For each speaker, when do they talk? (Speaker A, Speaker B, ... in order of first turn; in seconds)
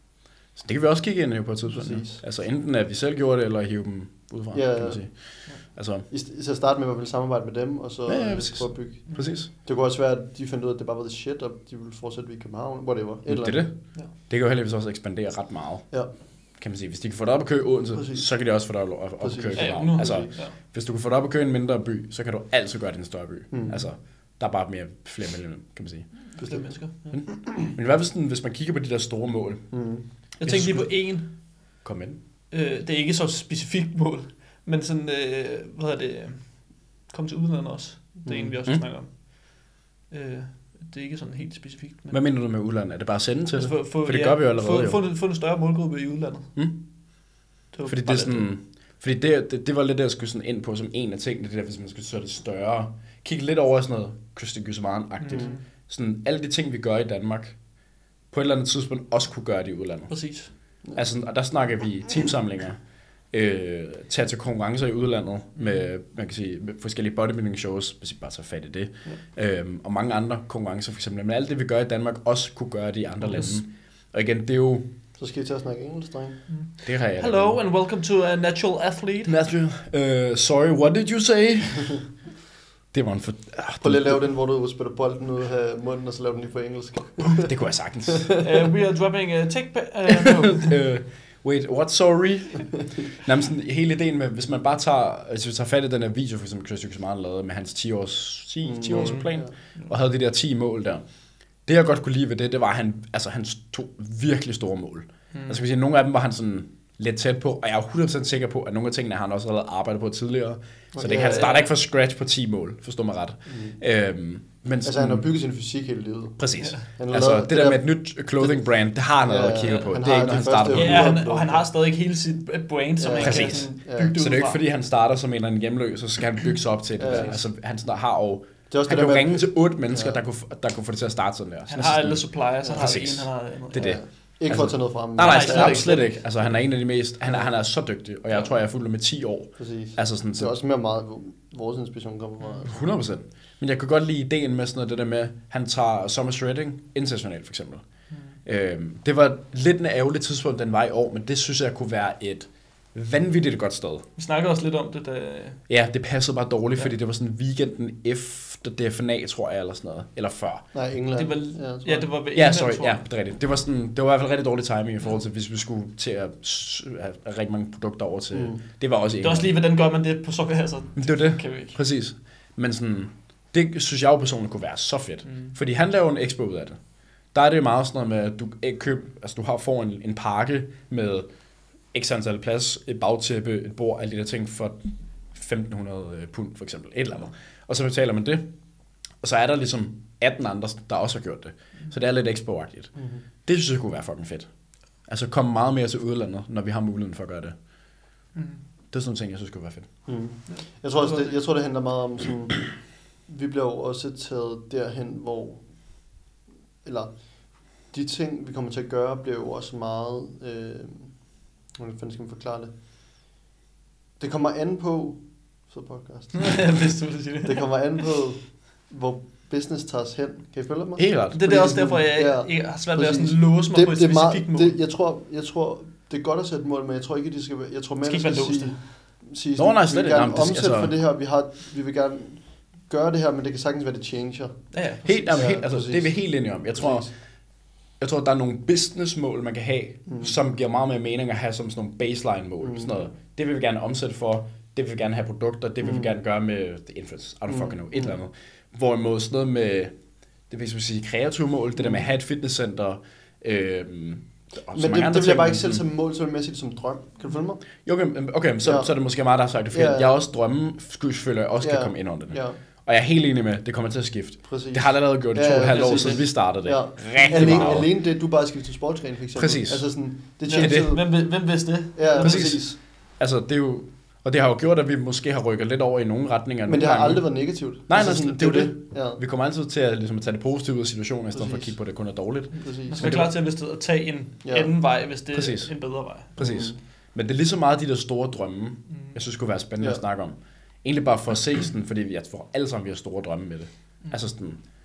Speaker A: 0.5-6.1, 8.1-9.5, 13.3-16.0, 16.6-26.1, 27.1-29.8, 30.4-31.2, 31.8-32.2, 42.1-45.0, 47.8-57.6, 58.3-60.2, 60.9-74.9, 76.8-77.6, 79.2-82.1, 82.9-84.2, 87.2-88.4, 90.1-101.0, 101.7-115.2, 116.4-121.2, 123.2-140.5, 142.6-147.8, 148.4-154.0, 155.7-160.6, 162.3-169.5, 171.0-176.8, 177.3-181.3, 181.9-184.8, 185.3-188.4, 189.2-192.9, 193.4-194.5, 195.1-197.5, 198.9-199.9, 221.0-221.4, 229.6-230.9, 235.0-237.1, 238.0-249.9, 250.5-255.8, 257.8-267.9, 269.3-269.9, 270.5-270.9, 272.2-283.3, 285.3-285.7, 286.3-294.6
Speaker B: 1.7-2.2, 4.5-5.0, 6.1-13.7, 17.9-18.3, 19.2-20.3, 23.5-23.8, 26.4-27.2, 29.7-30.0, 38.2-38.6, 75.2-76.4, 83.8-87.5, 98.6-99.5, 110.9-111.6, 113.5-113.8, 114.8-117.9, 119.2-121.7, 123.0-124.1, 127.0-127.4, 128.7-130.2, 133.8-136.5, 139.6-142.8, 160.7-162.1, 168.3-168.6, 192.9-193.2, 200.1-205.6, 206.8-211.1, 211.8-212.7, 214.2-216.7, 217.4-234.7, 235.2-237.1, 240.1-240.3, 242.6-243.1, 245.8-246.1, 247.5-248.1, 254.7-257.6, 258.6-258.9, 259.7-260.2, 261.6-262.6, 264.4-271.1, 271.9-272.8, 276.7-279.2, 281.3-281.7, 282.5-283.2, 284.4-284.7, 286.4-286.8
Speaker C: 19.5-20.5, 26.4-26.9, 30.4-31.3, 32.5-42.2, 43.5-46.5, 47.7-48.5, 55.2-55.6, 60.1-60.5, 65.6-65.9, 76.5-79.4, 88.4-90.8, 98.9-99.9, 105.3-105.6, 111.2-111.6, 120.7-124.6, 131.7-134.0, 135.2-136.3, 154.2-155.6, 161.1-163.0, 169.2-171.8, 175.2-175.5, 198.3-198.6, 200.5-201.3, 216.3-218.0, 221.3-224.8, 228.0-228.9, 234.7-235.4, 265.6-266.2, 267.2-267.8, 270.5-272.6, 282.9-286.3